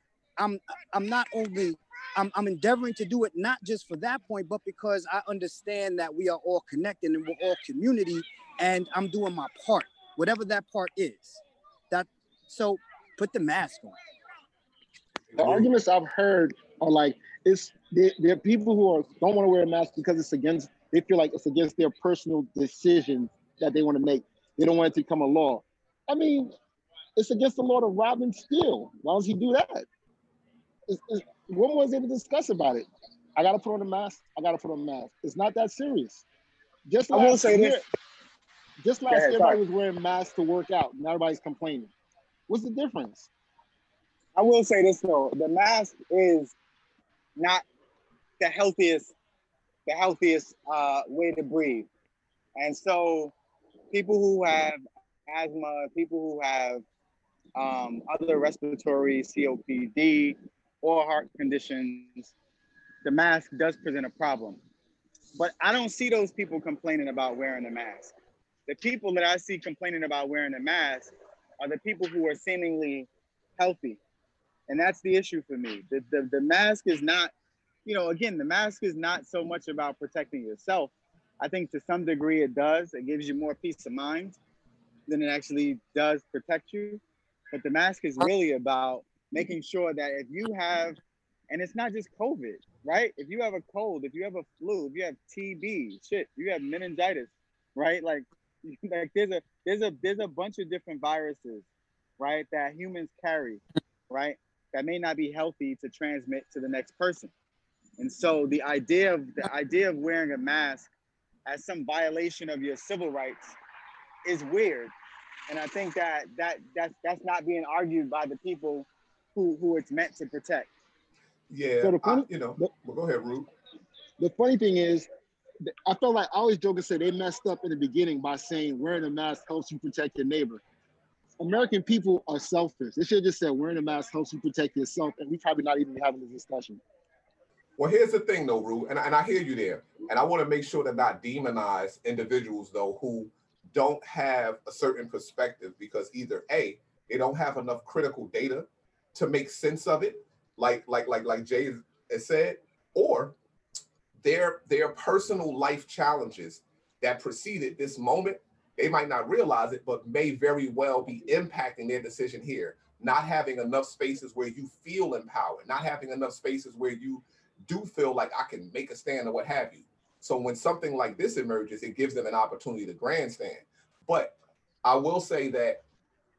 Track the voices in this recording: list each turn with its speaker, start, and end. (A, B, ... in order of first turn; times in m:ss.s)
0:00.4-0:13.9 A
0:15.3-0:15.7 B
0:15.4-0:26.5 C
0:27.2-0:29.8 C
0:30.9-0:36.2 C
0:36.9-0:37.8 C
0:37.1-0:37.8 D
0:38.8-0:41.9 C
0:39.1-0:39.6 D
0:42.5-0:43.3 C
0:44.4-0:46.6 D
0:47.4-0:47.6 D
0:48.4-0:49.1 D
0:49.9-0:51.9 D
0:52.6-0:53.4 D
0:53.9-0:56.8 D
0:57.6-1:02.3 D
1:03.0-1:04.6 D
1:05.4-1:08.1 D
1:08.7-1:14.0 D
1:14.7-1:17.3 D
1:17.9-1:24.4 D
1:25.1-1:27.0 D
1:27.5-1:41.7 D
1:42.2-1:47.3 D
1:48.0-1:50.9 D
1:51.5-1:53.6 D
1:54.2-1:54.9 D
1:55.5-2:00.7 D
2:01.5-2:03.5 B
2:01.8-2:02.7 C
2:04.2-2:05.1 C
2:05.9-2:10.6 C
2:11.4-2:16.8 C
2:17.8-2:33.4 B
2:34.2-2:55.8 B